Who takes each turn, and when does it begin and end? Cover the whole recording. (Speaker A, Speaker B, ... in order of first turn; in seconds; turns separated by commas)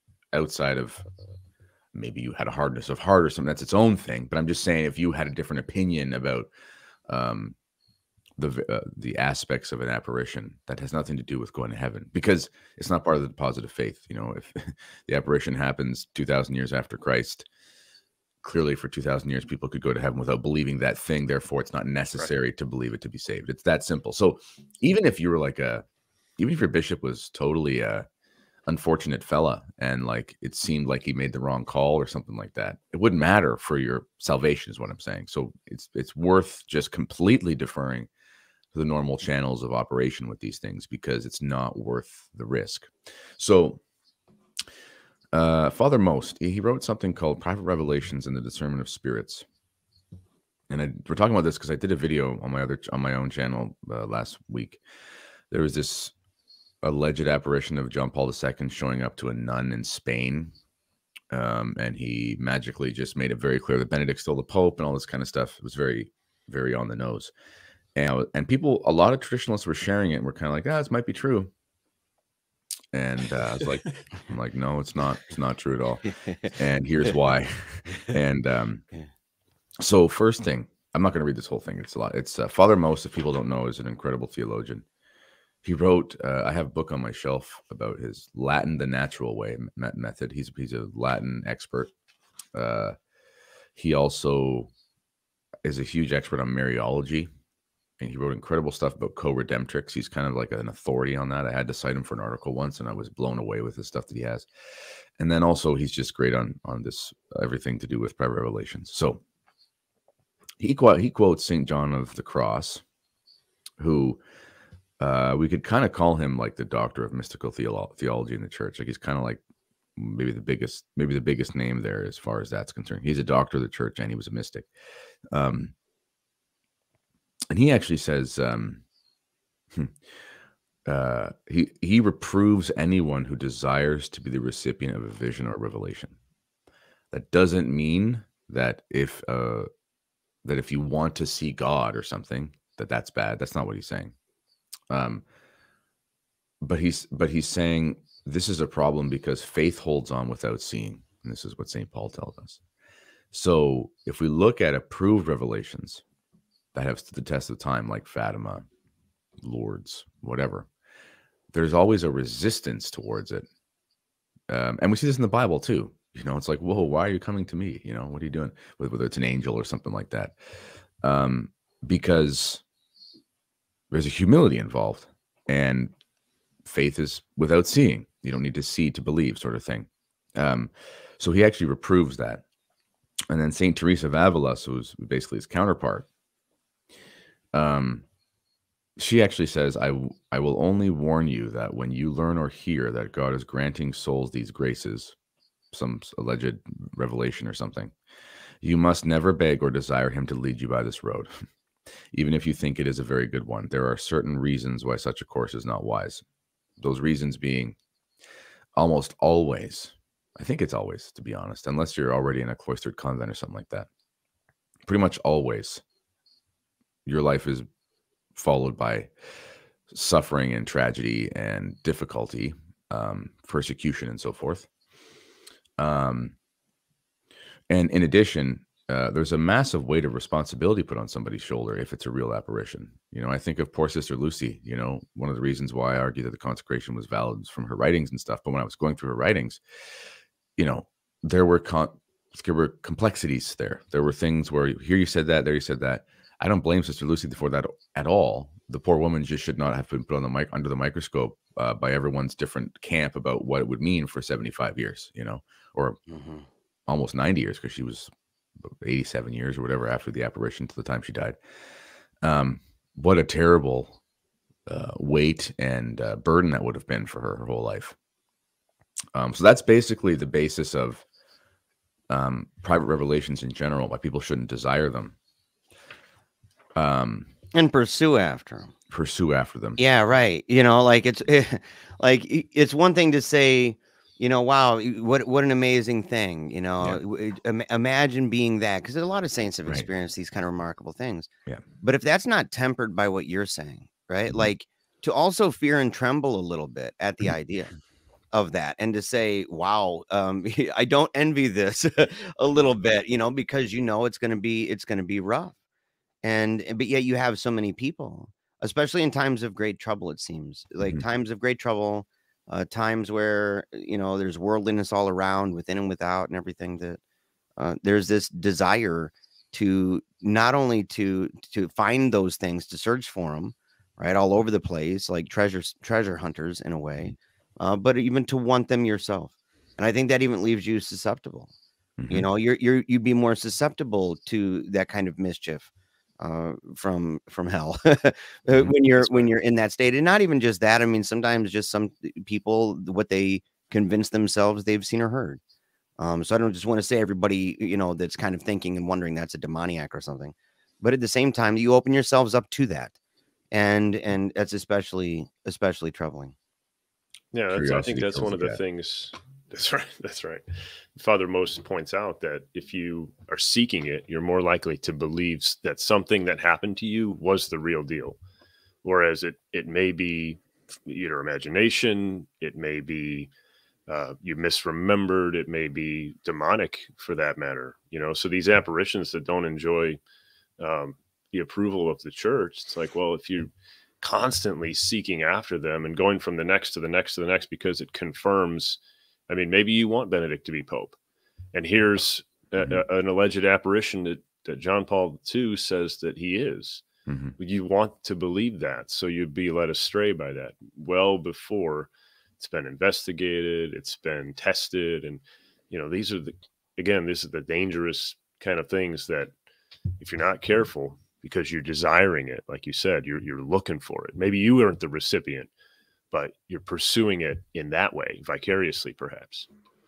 Speaker A: 0.3-1.1, Speaker A: 1.9-6.5, Speaker A: 7.1-7.5, Speaker A: 8.4-17.4, Speaker A: 18.4-25.8, Speaker A: 26.4-28.1, Speaker A: 28.7-38.1, Speaker A: 38.7-43.8, Speaker A: 45.3-49.4, Speaker A: 50.7-54.8, Speaker A: 55.5-56.1, Speaker A: 56.8-60.5, Speaker A: 61.3-67.3, Speaker A: 67.9-71.5, Speaker A: 72.9-78.8, Speaker B: 76.0-76.5, Speaker A: 79.8-84.8, Speaker A: 85.6-91.9, Speaker A: 92.5-93.0, Speaker A: 93.8-94.7, Speaker A: 95.6-97.3, Speaker A: 98.0-104.5, Speaker A: 105.2-109.2, Speaker A: 110.6-112.8, Speaker A: 113.8-114.2, Speaker A: 115.0-119.4, Speaker A: 120.0-124.7, Speaker A: 125.3-125.7, Speaker A: 127.5-128.8, Speaker A: 130.8-136.2, Speaker A: 137.1-139.7, Speaker A: 140.4-144.1, Speaker A: 144.9-145.2, Speaker A: 146.6-152.6, Speaker A: 153.3-156.0, Speaker A: 156.7-158.6, Speaker A: 159.4-160.7, Speaker A: 161.5-163.4, Speaker A: 164.5-170.3, Speaker A: 171.0-172.6, Speaker A: 173.9-175.9, Speaker A: 176.6-182.4, Speaker A: 183.3-186.1, Speaker A: 187.5-188.0, Speaker A: 189.0-195.1, Speaker A: 195.7-197.9, Speaker A: 198.6-201.3, Speaker A: 202.1-206.2, Speaker A: 206.8-207.8, Speaker A: 208.7-213.9, Speaker A: 214.8-215.8, Speaker A: 217.1-217.7, Speaker A: 218.3-219.1, Speaker A: 219.9-224.7, Speaker A: 225.8-226.3, Speaker A: 227.7-239.6, Speaker A: 240.6-256.0, Speaker B: 256.1-256.4, Speaker A: 256.9-261.4, Speaker A: 262.2-264.0, Speaker A: 264.7-267.9, Speaker A: 269.1-271.0, Speaker A: 272.1-275.1, Speaker A: 276.8-277.3, Speaker B: 277.5-278.7, Speaker A: 278.9-279.8, Speaker B: 279.8-291.3, Speaker B: 291.8-297.7, Speaker B: 298.3-305.5, Speaker B: 306.2-317.0, Speaker A: 310.8-311.0, Speaker B: 317.6-331.5, Speaker A: 332.0-332.3, Speaker B: 332.1-345.4, Speaker A: 338.5-339.3, Speaker B: 346.0-352.9, Speaker B: 353.5-356.3, Speaker C: 357.3-360.4, Speaker A: 357.5-358.6, Speaker C: 360.9-368.2, Speaker C: 368.8-373.3, Speaker C: 373.9-380.0, Speaker C: 380.6-390.9, Speaker C: 391.5-396.8, Speaker A: 397.1-397.3, Speaker C: 397.4-409.3, Speaker C: 410.0-415.5, Speaker C: 416.1-419.5